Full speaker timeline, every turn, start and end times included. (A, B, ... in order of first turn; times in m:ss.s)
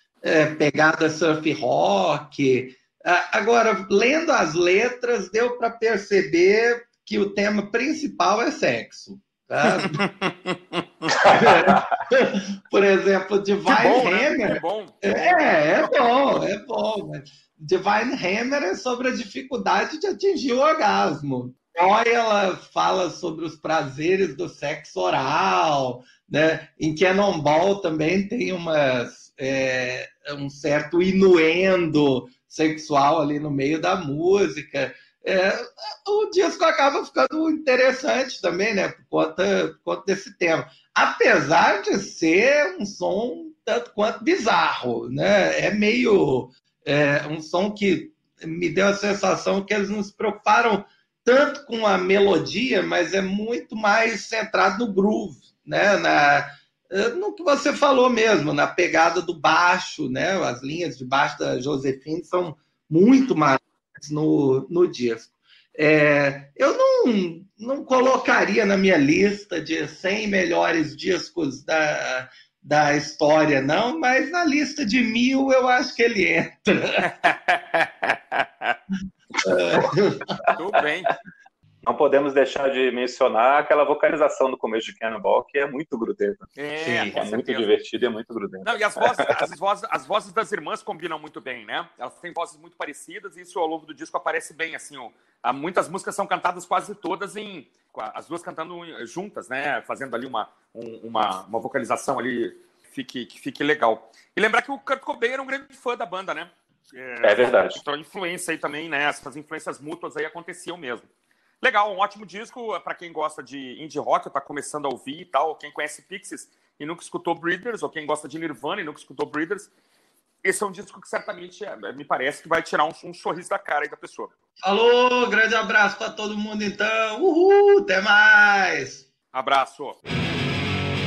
0:00.2-0:10.0 A
0:09.6-0:11.1 B
0:11.1-0:11.9 C
0:11.2-1:17.2 A
0:13.7-0:16.2 B
1:17.0-1:18.8 B
1:19.4-1:20.3 A
1:20.5-1:21.2 B
1:21.8-1:26.5 C
1:26.6-1:27.7 B
1:27.0-1:29.3 C
1:28.6-1:51.1 B
1:47.2-1:47.8 C
1:51.6-1:59.7 B
2:00.4-2:04.3 B
2:04.6-2:09.1 A
2:09.3-2:10.0 B